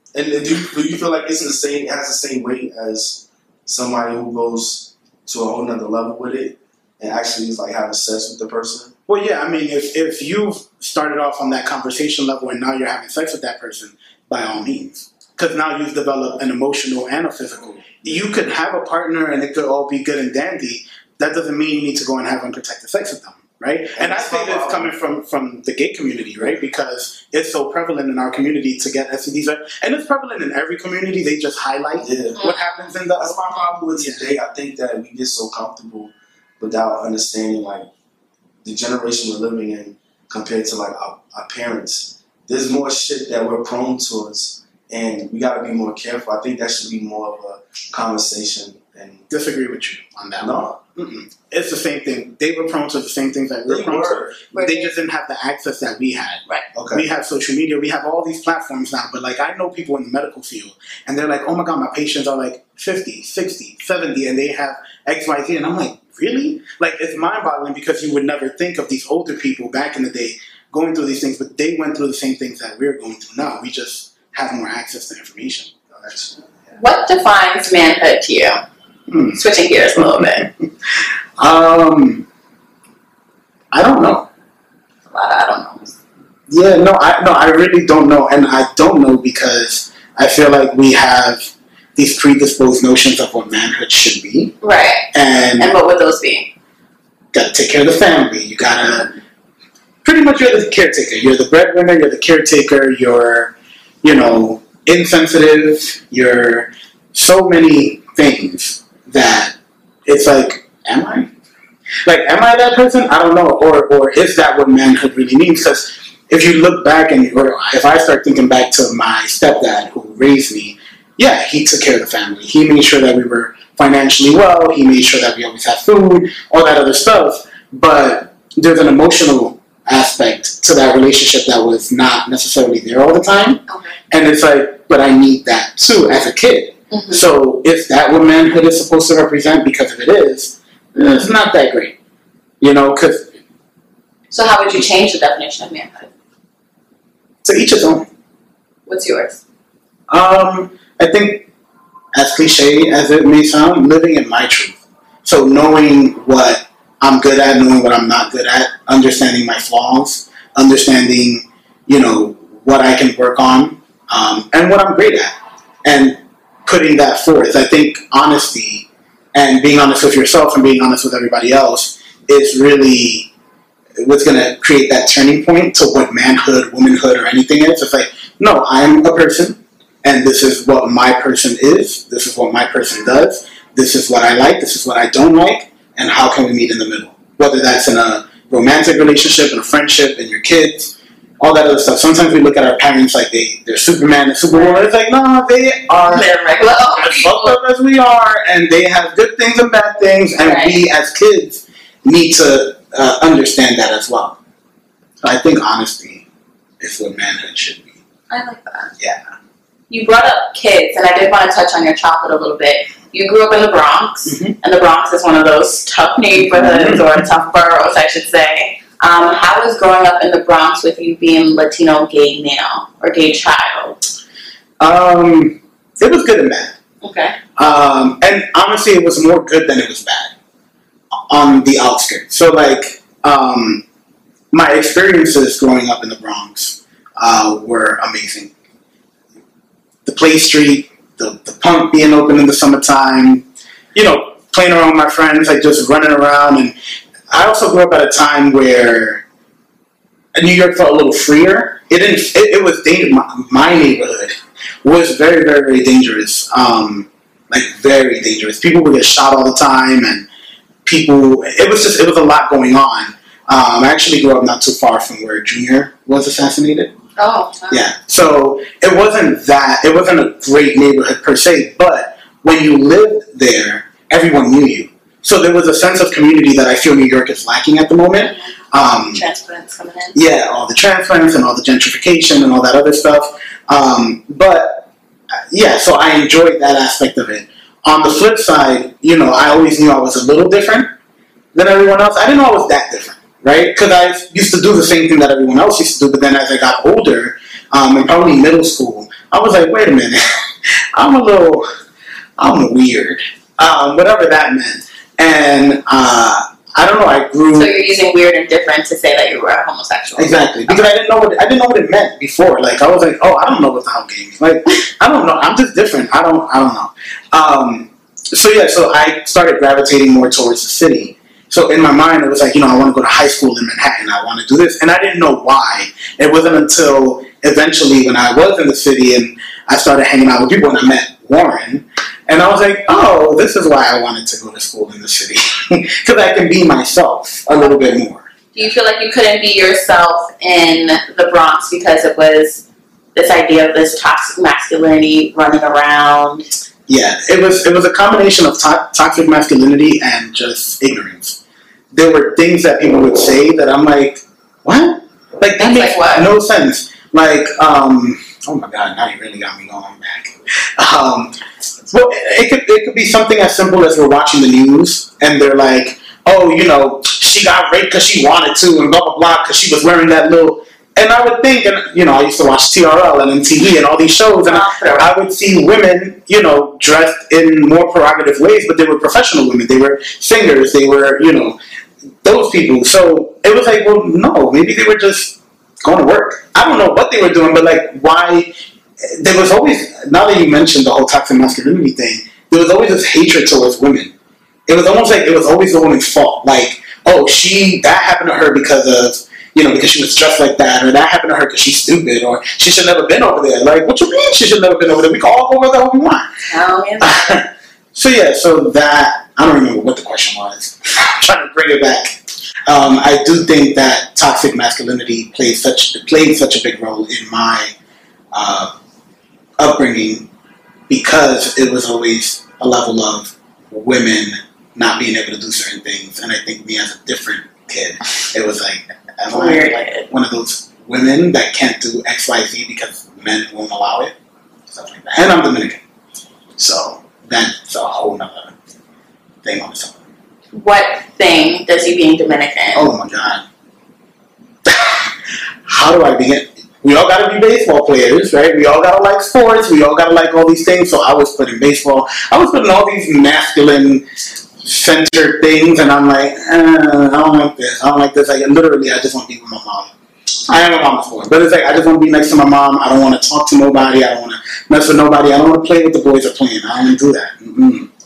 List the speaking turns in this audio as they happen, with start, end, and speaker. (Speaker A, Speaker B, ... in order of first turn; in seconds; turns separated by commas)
Speaker A: 0.1-8.9, Speaker B: 9.1-33.4, Speaker A: 23.9-24.9, Speaker A: 32.0-32.4, Speaker C: 32.4-32.9, Speaker A: 33.2-37.9, Speaker B: 34.0-34.3, Speaker A: 38.6-49.3, Speaker B: 49.3-75.7, Speaker A: 50.4-50.8, Speaker A: 53.7-54.5, Speaker C: 54.5-54.9, Speaker A: 56.7-57.1, Speaker A: 75.9-76.5, Speaker C: 76.7-78.6, Speaker B: 79.1-79.4, Speaker C: 79.3-80.5, Speaker B: 79.9-80.6, Speaker B: 81.4-82.2, Speaker B: 83.7-84.3, Speaker C: 85.1-86.0, Speaker B: 86.5-94.6, Speaker C: 94.6-95.1, Speaker B: 95.1-95.7, Speaker C: 95.6-96.5, Speaker B: 97.3-99.1, Speaker B: 100.0-111.3, Speaker B: 112.1-141.9, Speaker C: 133.7-134.0, Speaker C: 136.9-137.2, Speaker B: 142.6-143.3, Speaker C: 144.3-146.1, Speaker B: 147.4-148.1, Speaker C: 148.9-149.4, Speaker B: 150.1-151.5, Speaker B: 152.1-165.3, Speaker B: 165.8-173.3, Speaker B: 174.0-204.4, Speaker C: 194.5-194.8, Speaker C: 196.1-197.6, Speaker C: 200.4-200.8, Speaker B: 205.2-206.2, Speaker B: 206.8-208.0, Speaker C: 208.3-208.9, Speaker B: 209.0-209.3, Speaker C: 209.9-224.0, Speaker B: 214.3-214.6, Speaker B: 216.4-217.2, Speaker B: 224.8-226.8, Speaker C: 227.0-227.4, Speaker B: 227.6-230.3, Speaker B: 231.3-233.8, Speaker B: 234.5-238.5, Speaker B: 240.1-246.7, Speaker B: 247.3-249.2, Speaker B: 250.3-260.2, Speaker B: 260.9-266.9, Speaker C: 267.2-267.8, Speaker B: 267.7-279.2, Speaker C: 278.2-280.2, Speaker B: 280.1-284.9, Speaker B: 285.5-290.9, Speaker B: 291.5-301.7, Speaker B: 302.4-307.7, Speaker C: 307.5-310.9, Speaker B: 310.2-338.2, Speaker C: 338.6-342.6, Speaker C: 343.1-346.5, Speaker B: 346.9-351.4, Speaker B: 351.9-361.3, Speaker C: 355.6-356.2, Speaker B: 361.9-381.6, Speaker C: 374.4-375.1, Speaker B: 382.2-388.5, Speaker B: 389.0-394.1, Speaker B: 394.7-406.3, Speaker C: 406.5-407.4, Speaker B: 407.0-417.7, Speaker B: 418.3-418.7, Speaker B: 419.6-420.3, Speaker B: 420.9-434.1, Speaker C: 429.3-430.1, Speaker B: 434.7-435.8, Speaker B: 436.6-438.5, Speaker B: 439.4-440.0, Speaker C: 440.5-442.9, Speaker B: 442.7-443.4, Speaker B: 444.6-445.1, Speaker B: 445.7-454.0, Speaker B: 454.6-459.9, Speaker B: 460.5-467.9